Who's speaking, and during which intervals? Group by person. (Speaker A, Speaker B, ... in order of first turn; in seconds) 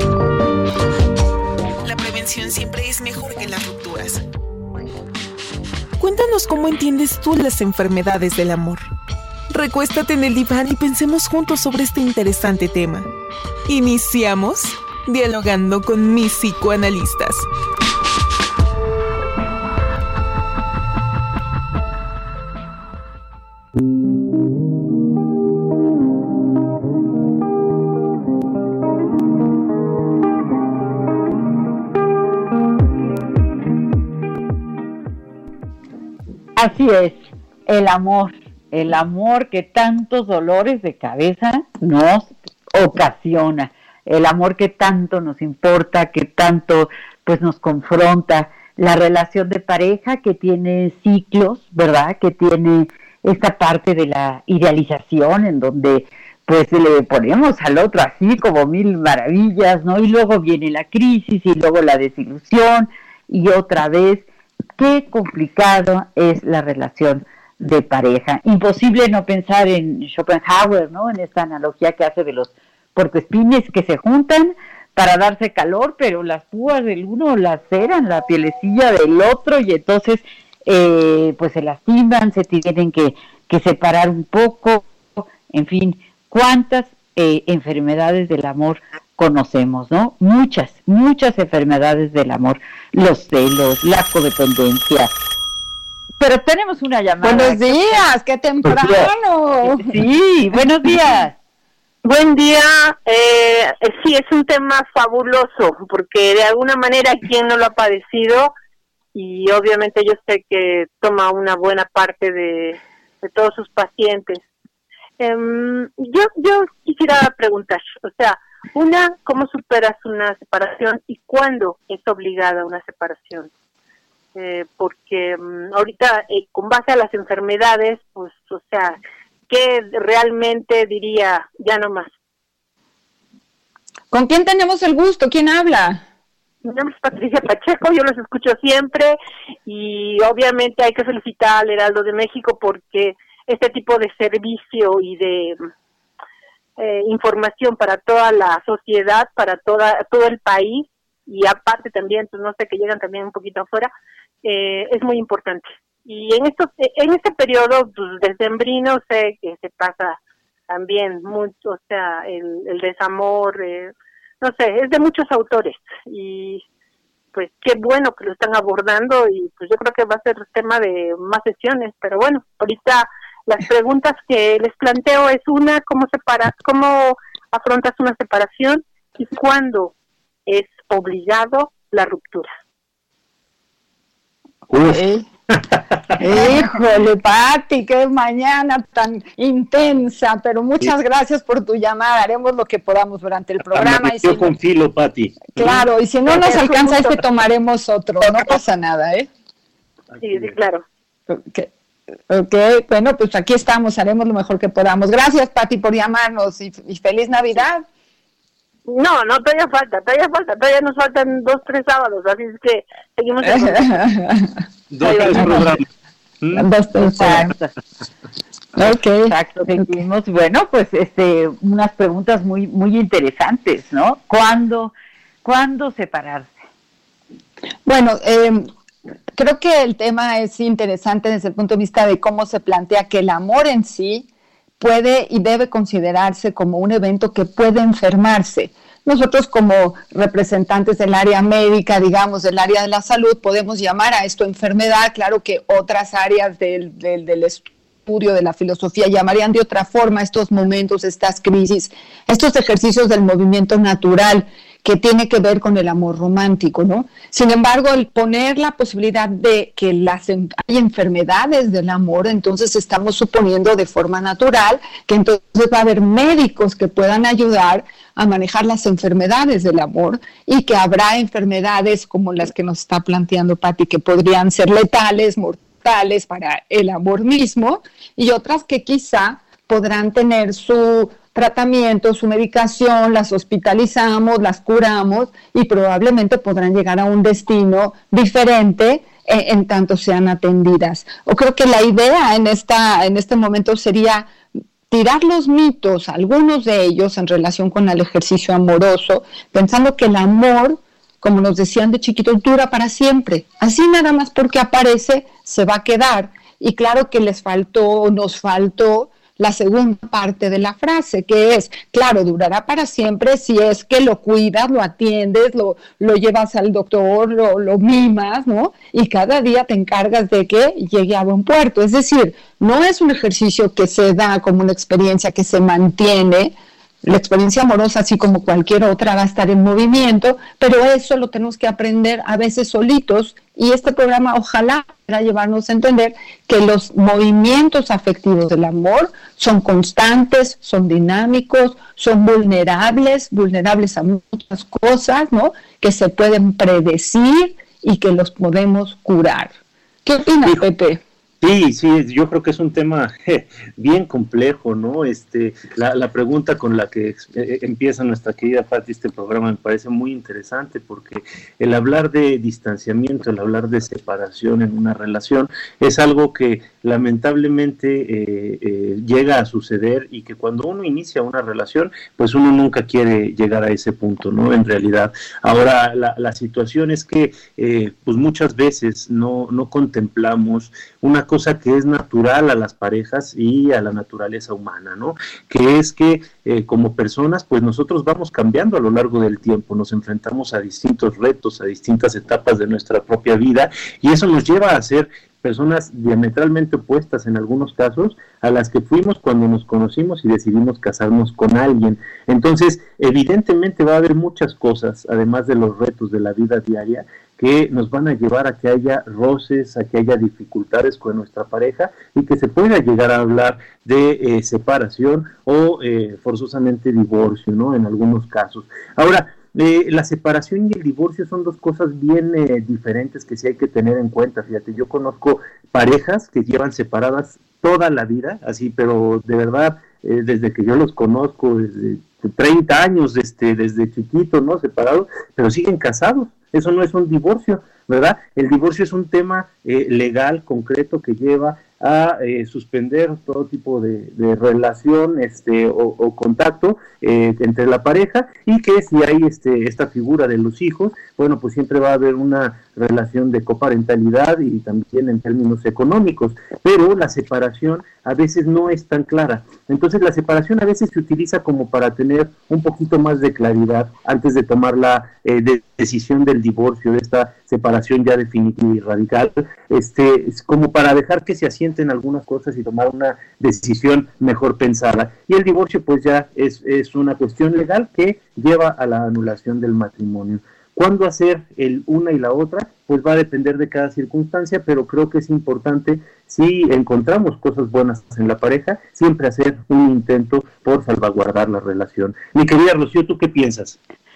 Speaker A: 1.8-4.2, 6.0-8.8, 9.5-13.1, 13.7-17.5
Speaker B: 36.5-64.2, 64.8-95.1, 96.2-98.0, 99.6-101.3, 217.0-217.7, 218.8-224.9, 225.4-226.5
Speaker C: 97.2-99.9, 134.1-136.0, 184.9-185.2, 186.2-194.5, 195.6-199.3, 201.3-201.7, 202.3-207.8, 213.4-214.5, 215.1-215.8, 216.5-217.5, 218.8-219.8, 227.8-228.7, 229.3-234.3, 234.8-294.4, 294.9-349.5, 350.0-351.0
Speaker D: 102.0-108.5, 109.1-114.4, 115.2-123.5, 124.3-129.0, 129.5-132.1, 136.6-145.6, 146.8-153.9, 154.4-160.2, 160.7-166.6, 167.3-179.9, 180.5-182.5, 200.2-200.8, 208.9-214.0
Speaker E: 184.7-186.2, 193.7-196.4, 200.1-200.5, 214.9-215.8, 351.4-493.8